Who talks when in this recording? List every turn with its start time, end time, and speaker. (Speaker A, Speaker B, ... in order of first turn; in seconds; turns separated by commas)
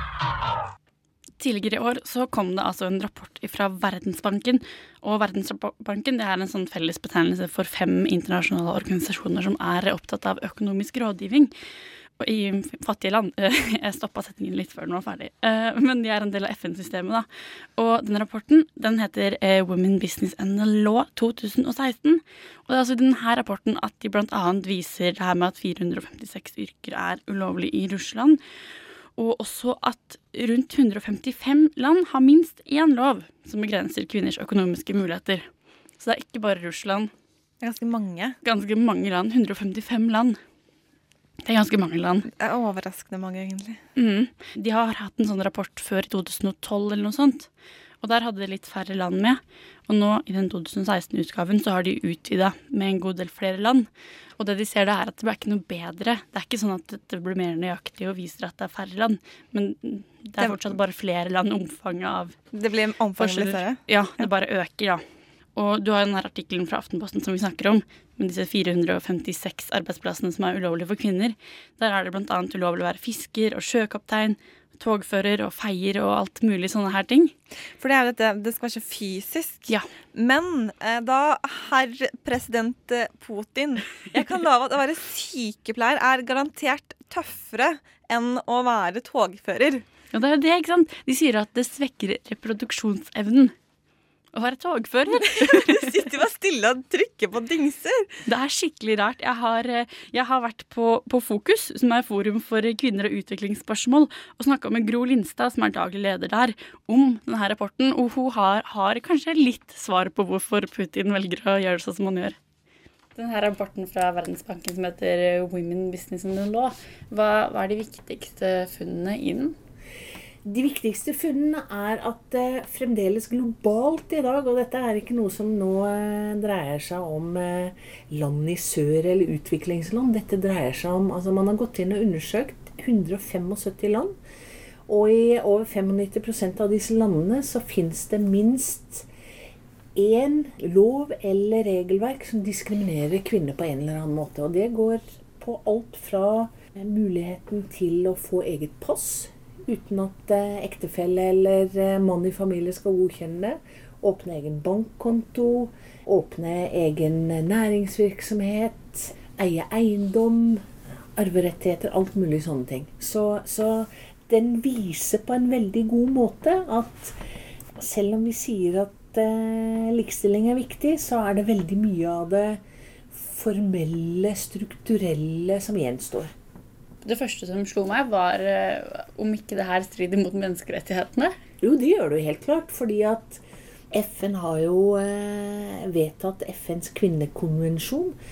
Speaker A: 1.4-11.5, Speaker A: 12.2-17.2, Speaker A: 17.8-28.4, Speaker A: 29.2-35.5, Speaker A: 36.0-37.1, Speaker B: 37.6-38.4, Speaker A: 38.4-40.4, Speaker A: 41.4-42.3, Speaker B: 42.3-43.8, Speaker A: 44.0-47.5, Speaker A: 48.0-62.4, Speaker B: 60.4-60.7, Speaker B: 62.5-64.3, Speaker A: 63.2-65.0, Speaker A: 65.5-77.3, Speaker B: 77.8-89.8, Speaker A: 90.1-93.5, Speaker A: 94.3-95.9, Speaker B: 95.1-98.1, Speaker A: 98.2-112.3, Speaker A: 113.2-119.5, Speaker C: 120.4-134.2, Speaker C: 134.9-139.1, Speaker C: 139.9-167.2, Speaker C: 167.8-176.3, Speaker A: 177.0-181.3, Speaker C: 181.6-188.2